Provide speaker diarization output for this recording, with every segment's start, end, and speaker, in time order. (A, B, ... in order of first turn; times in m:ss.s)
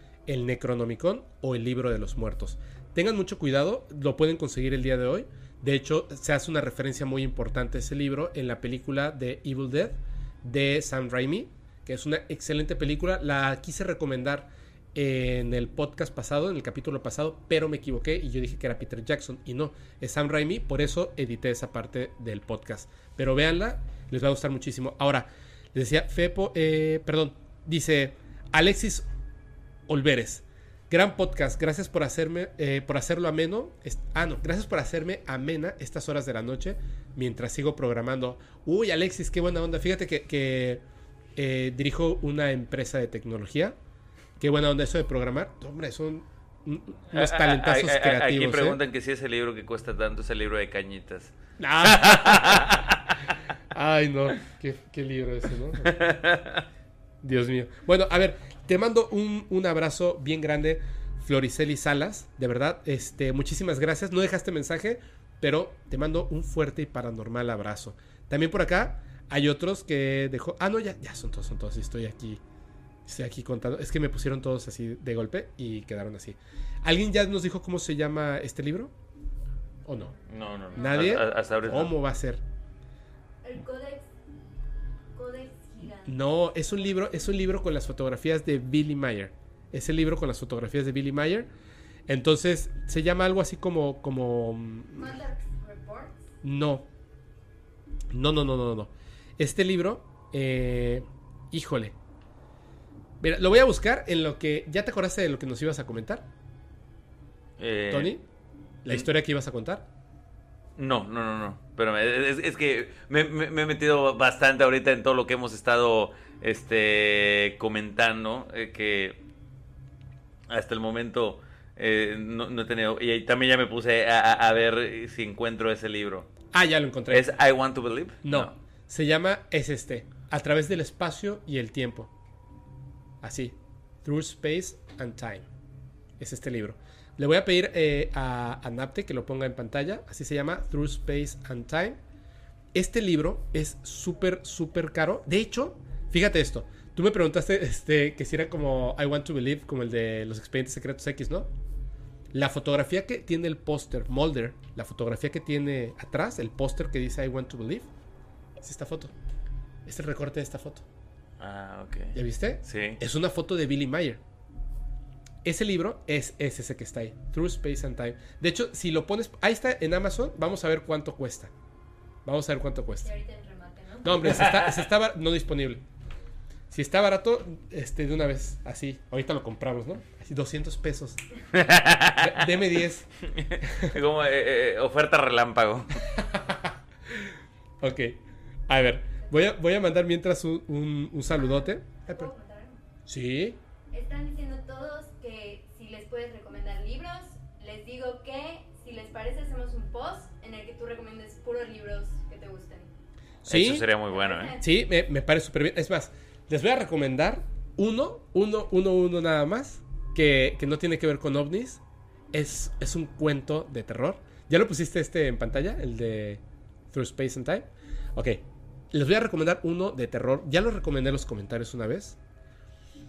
0:00.3-0:29.1 A
0:29.9-0:40.8 A
0:41.4-0:43.8 A
0:44.4-0:48.8 A
0:47.1-0:53.4 B
0:51.6-0:52.8 A
0:53.7-0:55.9 A
0:55.8-0:56.6 B
0:57.2-1:12.4 A
1:13.0-1:18.9 A
1:19.8-1:20.2 A
1:20.3-1:21.9 B
1:20.8-1:22.4 A
1:20.8-1:21.0 C
1:23.4-1:24.1 C
1:25.1-1:26.1 C
1:26.0-1:31.5 A
1:32.1-1:35.2 A
1:34.9-1:36.2 C
1:36.4-1:36.9 A
1:38.1-1:42.0 A
1:43.2-1:46.3 A
1:47.6-1:48.2 B
1:47.9-1:48.2 A
1:48.8-1:49.9 A
1:50.8-1:59.2 B
2:00.5-2:06.3 B
2:06.5-2:07.3 A
2:07.1-2:08.5 B
2:08.2-2:12.1 A
2:13.2-2:15.5 A
2:16.2-2:22.0 A
2:22.7-2:31.5 A
2:32.3-2:37.9 A
2:38.6-2:39.1 A
2:39.8-2:40.8 A
2:41.4-2:43.0 B
2:42.1-2:44.2 A
2:45.4-2:51.5 A
2:52.2-2:53.1 A
2:53.0-2:54.5 C
2:54.0-2:55.8 A
2:54.5-2:54.8 B
2:56.7-3:01.2 A
3:01.5-3:02.4 B
3:02.2-3:03.1 A
3:03.4-3:06.0 B
3:03.6-3:03.9 A
3:06.1-3:07.3 A
3:07.8-3:12.3 A
3:12.0-3:12.8 C
3:13.1-3:13.6 A
3:13.9-3:22.9 C
3:23.4-3:23.9 A
3:23.5-3:24.5 B
3:24.1-3:24.6 C
3:24.6-3:42.2 A